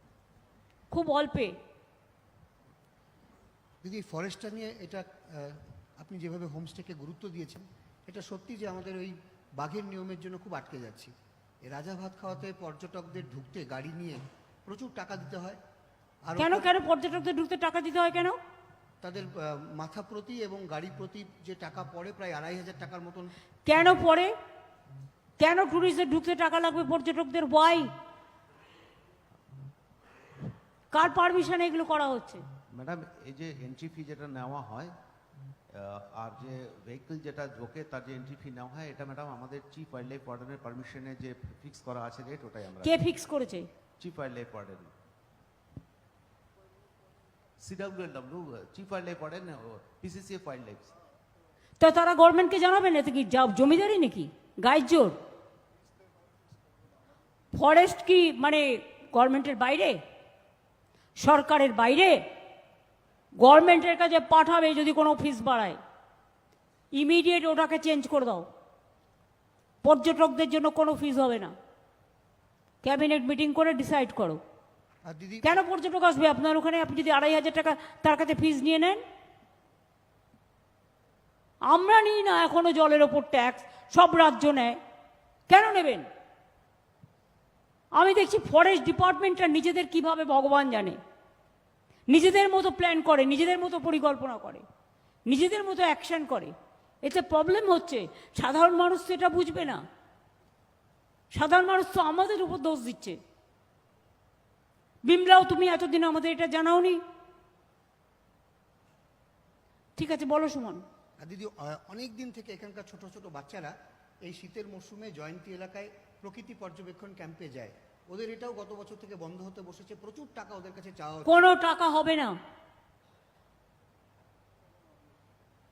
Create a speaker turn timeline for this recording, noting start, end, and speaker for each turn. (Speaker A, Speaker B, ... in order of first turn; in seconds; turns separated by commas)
Speaker A: 0.9-1.5, Speaker B: 3.8-11.1, Speaker B: 11.6-15.6, Speaker B: 16.2-16.7, Speaker A: 16.4-18.4, Speaker B: 19.0-23.4, Speaker A: 23.6-24.3, Speaker A: 25.4-27.9, Speaker A: 30.9-32.4, Speaker C: 32.7-34.9, Speaker C: 35.7-43.0, Speaker A: 42.8-43.7, Speaker C: 44.0-44.9, Speaker C: 47.6-50.9, Speaker A: 51.8-55.2, Speaker A: 57.5-60.0, Speaker A: 61.2-62.2, Speaker A: 63.4-65.8, Speaker A: 66.9-68.5, Speaker A: 69.8-71.5, Speaker A: 72.8-74.4, Speaker B: 75.0-75.6, Speaker A: 75.4-79.0, Speaker A: 81.6-84.8, Speaker A: 85.5-86.1, Speaker A: 87.9-91.0, Speaker A: 92.1-94.6, Speaker A: 95.3-99.8, Speaker A: 101.3-103.2, Speaker A: 105.0-107.0, Speaker A: 110.0-110.8, Speaker B: 111.2-121.3, Speaker A: 121.2-122.3